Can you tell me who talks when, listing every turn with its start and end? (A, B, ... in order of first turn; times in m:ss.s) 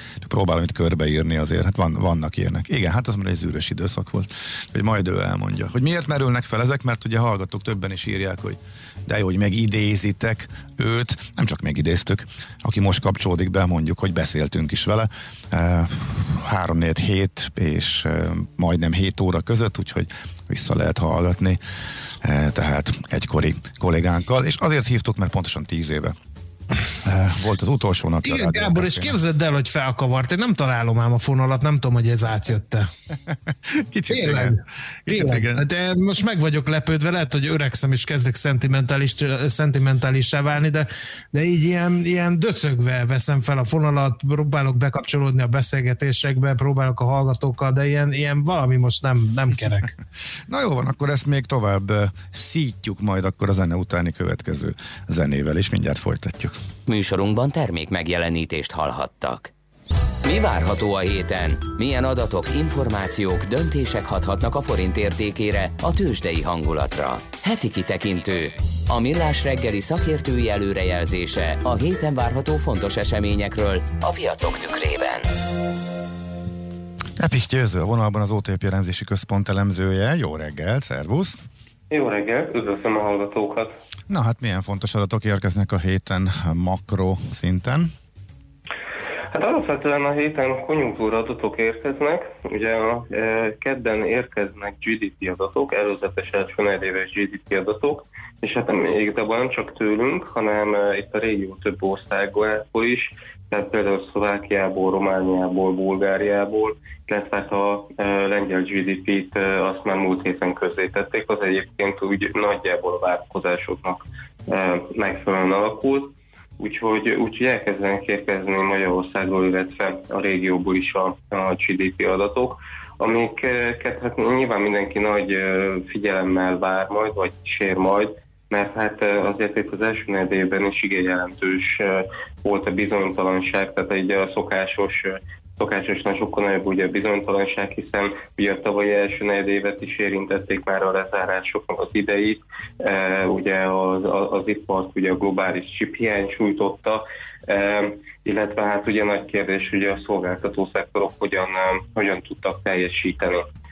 0:00.2-0:21.6 A
0:22.2-0:26.2 A
0:27.0-0:29.2 A
0:28.2-0:32.9 B
0:33.7-0:35.6 A
0:34.1-0:49.9 B
0:50.5-0:56.6 A
0:56.9-0:59.5 C
1:00.2-1:15.3 C
1:17.2-1:21.4 A
1:21.9-1:23.8 D
1:24.1-1:27.9 A
1:29.3-2:33.4 D